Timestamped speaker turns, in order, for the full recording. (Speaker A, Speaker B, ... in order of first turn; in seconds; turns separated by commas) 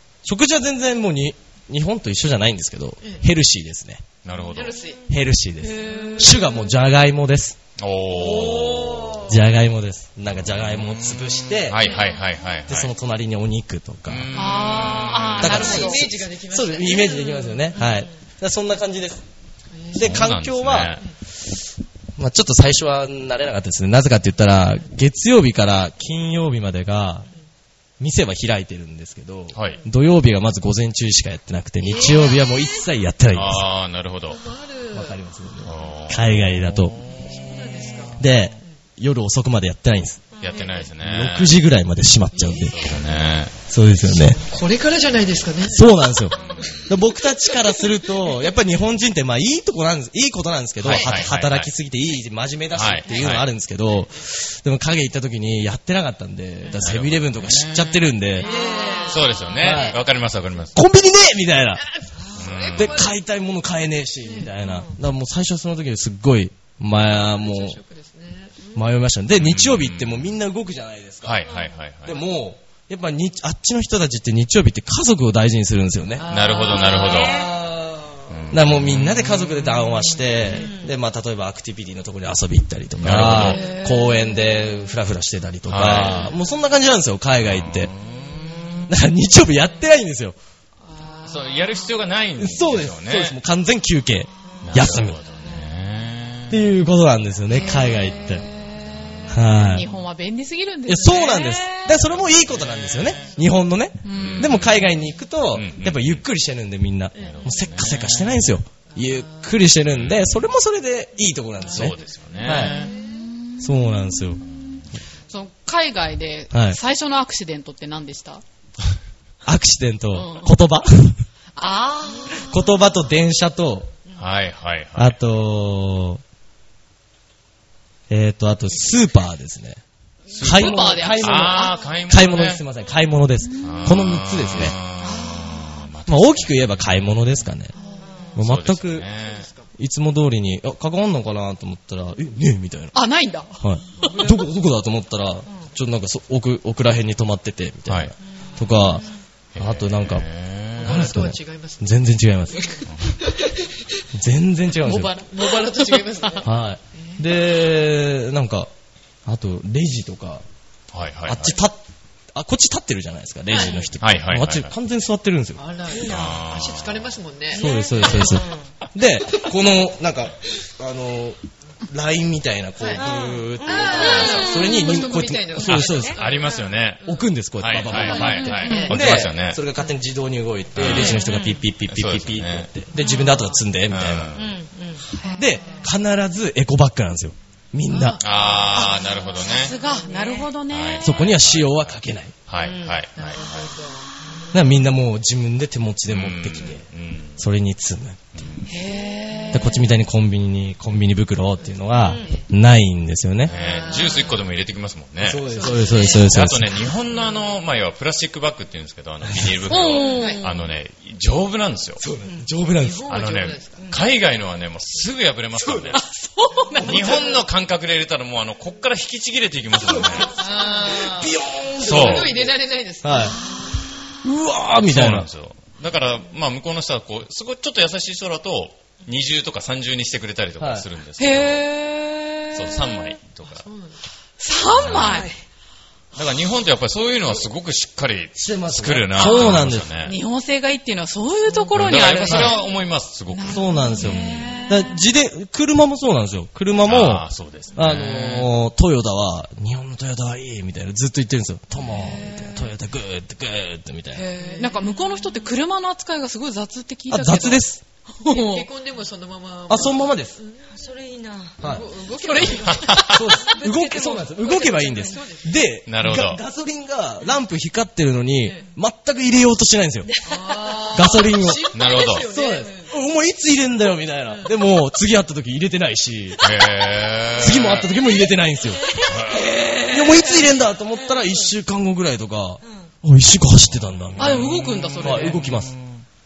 Speaker A: 0.2-4.0, Speaker B: 4.2-4.8, Speaker C: 4.5-5.0, Speaker A: 5.1-7.6, Speaker D: 5.6-6.4, Speaker C: 5.8-6.5, Speaker B: 7.8-9.2, Speaker C: 8.1-9.4, Speaker A: 9.2-11.8, Speaker B: 10.7-12.9, Speaker A: 12.7-14.3, Speaker B: 14.1-15.9, Speaker D: 14.3-16.1, Speaker C: 15.4-17.8, Speaker A: 15.4-19.2, Speaker C: 19.8-20.2, Speaker A: 19.9-21.0, Speaker B: 19.9-21.1, Speaker A: 22.2-27.3, Speaker A: 28.0-33.6, Speaker B: 29.5-29.8, Speaker C: 31.8-32.9, Speaker B: 33.3-34.5, Speaker C: 34.3-35.2, Speaker A: 34.9-37.0, Speaker B: 35.6-37.3, Speaker C: 37.1-38.3, Speaker A: 38.1-40.2, Speaker B: 40.4-41.6, Speaker C: 40.5-40.9, Speaker A: 41.0-43.0, Speaker C: 42.3-43.3, Speaker B: 42.6-43.6, Speaker A: 43.7-44.4, Speaker C: 44.0-46.8, Speaker A: 45.6-58.5, Speaker B: 46.3-46.9, Speaker C: 47.5-48.3, Speaker B: 50.8-51.7, Speaker B: 52.7-53.5, Speaker B: 56.8-58.4, Speaker C: 58.4-60.0, Speaker E: 58.8-59.1, Speaker B: 59.0-60.8, Speaker A: 59.6-60.0, Speaker A: 60.7-61.9, Speaker C: 61.9-63.1, Speaker B: 62.4-63.1, Speaker A: 62.7-67.8, Speaker C: 64.2-64.5, Speaker C: 67.1-68.7, Speaker A: 68.7-71.5, Speaker B: 69.4-70.2, Speaker B: 71.2-72.2, Speaker C: 71.5-72.2, Speaker A: 72.0-76.3, Speaker C: 76.2-78.4, Speaker B: 76.3-77.4, Speaker E: 76.8-77.5, Speaker B: 78.3-79.2, Speaker A: 78.5-87.9, Speaker C: 80.1-80.7, Speaker B: 83.0-83.6, Speaker C: 83.3-84.2, Speaker D: 83.4-84.0, Speaker B: 85.7-86.3, Speaker B: 87.4-88.8, Speaker A: 88.9-90.3, Speaker C: 90.9-91.8, Speaker B: 91.2-93.4, Speaker A: 92.4-95.2, Speaker B: 94.6-96.6, Speaker A: 96.5-98.4, Speaker D: 97.5-98.2, Speaker A: 99.3-99.9, Speaker D: 99.5-101.9, Speaker A: 100.9-112.7, Speaker B: 102.0-103.3, Speaker D: 104.0-104.6, Speaker B: 104.1-104.9, Speaker B: 105.5-106.2, Speaker B: 107.2-108.5, Speaker C: 107.2-107.5, Speaker C: 109.0-109.4, Speaker B: 109.9-110.3, Speaker B: 111.7-112.9, Speaker D: 112.5-113.9, Speaker A: 113.6-114.4, Speaker D: 115.3-118.4, Speaker A: 116.5-116.8, Speaker A: 119.5-121.2, Speaker D: 120.1-120.6, Speaker D: 121.5-122.8, Speaker A: 122.3-123.9, Speaker B: 124.2-125.2, Speaker A: 125.0-126.2, Speaker A: 128.1-129.8, Speaker D: 130.3-131.8, Speaker B: 130.3-132.6, Speaker A: 130.3-134.8, Speaker D: 133.5-133.9, Speaker B: 133.6-137.2, Speaker D: 135.0-135.8, Speaker A: 136.1-137.7, Speaker D: 137.8-138.1, Speaker A: 138.3-139.1, Speaker B: 138.3-139.5, Speaker C: 139.2-139.7, Speaker A: 139.8-142.9, Speaker D: 142.9-144.1, Speaker A: 143.6-150.3, Speaker C: 144.0-144.5, Speaker B: 147.9-148.1, Speaker B: 149.5-151.1, Speaker A: 150.8-152.8, Speaker C: 150.8-154.0, Speaker B: 152.8-153.2, Speaker A: 154.1-155.1, Speaker D: 154.8-156.4, Speaker C: 154.9-157.3, Speaker A: 156.4-158.7, Speaker A: 159.2-160.4, Speaker B: 160.9-161.6, Speaker A: 161.2-161.8, Speaker A: 162.3-165.6, Speaker C: 163.5-163.8, Speaker B: 164.0-164.7, Speaker C: 165.6-168.4, Speaker E: 165.9-166.4, Speaker B: 166.0-167.1, Speaker A: 167.5-176.2, Speaker E: 167.6-168.6, Speaker C: 172.8-177.2, Speaker E: 173.6-174.7, Speaker B: 175.6-179.6, Speaker A: 177.0-184.3, Speaker C: 177.8-179.2, Speaker D: 178.2-178.9, Speaker B: 180.7-182.7, Speaker C: 180.8-181.3, Speaker C: 183.0-183.5, Speaker B: 183.9-184.6, Speaker E: 184.3-185.1, Speaker D: 185.2-185.4, Speaker A: 185.3-188.2, Speaker C: 185.4-185.9, Speaker C: 187.9-190.5, Speaker B: 188.2-189.8, Speaker D: 188.7-191.0, Speaker B: 190.7-193.7, Speaker A: 191.0-192.3, Speaker E: 192.6-193.0, Speaker C: 193.1-194.7, Speaker A: 194.5-196.8, Speaker B: 196.1-197.4, Speaker A: 197.4-198.4, Speaker B: 198.3-198.7, Speaker D: 198.7-199.9, Speaker C: 199.4-199.7, Speaker A: 199.5-203.5, Speaker C: 202.0-202.4, Speaker B: 203.4-212.0, Speaker C: 203.5-204.5, Speaker A: 205.2-206.7, Speaker C: 205.5-206.4, Speaker A: 209.2-209.6, Speaker D: 209.7-210.5, Speaker C: 210.0-210.4, Speaker A: 212.0-213.1, Speaker C: 212.7-213.9, Speaker B: 213.1-216.0, Speaker C: 215.6-215.9, Speaker D: 215.9-217.3, Speaker C: 216.8-217.4, Speaker B: 216.8-220.4, Speaker C: 219.8-223.5, Speaker A: 220.6-223.4, Speaker B: 221.8-222.3, Speaker D: 223.2-223.8, Speaker A: 224.2-225.3, Speaker B: 224.9-231.7, Speaker A: 230.6-230.8, Speaker D: 231.2-232.9, Speaker B: 232.5-233.7, Speaker C: 233.5-234.0, Speaker D: 234.4-235.3, Speaker B: 234.7-235.3, Speaker B: 236.1-240.2, Speaker A: 238.3-239.9, Speaker D: 239.2-242.7, Speaker B: 241.7-244.3, Speaker A: 242.3-242.5, Speaker D: 243.3-245.0, Speaker A: 243.5-254.3, Speaker B: 246.8-248.5, Speaker D: 251.9-252.6, Speaker D: 254.2-257.6, Speaker C: 254.3-254.8, Speaker A: 257.1-257.8, Speaker D: 258.2-258.7, Speaker C: 258.3-260.7, Speaker A: 259.7-260.4, Speaker E: 260.7-261.6, Speaker A: 261.6-261.9, Speaker C: 261.6-265.6, Speaker D: 262.2-263.1, Speaker B: 262.4-263.3, Speaker A: 263.1-270.1, Speaker B: 265.9-266.4, Speaker E: 270.1-270.8, Speaker C: 270.2-272.9, Speaker A: 270.9-276.5, Speaker B: 271.7-272.3, Speaker B: 276.4-277.9, Speaker A: 277.4-279.0, Speaker E: 278.8-279.1, Speaker B: 279.0-279.5, Speaker D: 279.3-280.3, Speaker A: 279.9-285.7, Speaker B: 283.7-286.0, Speaker D: 284.2-285.4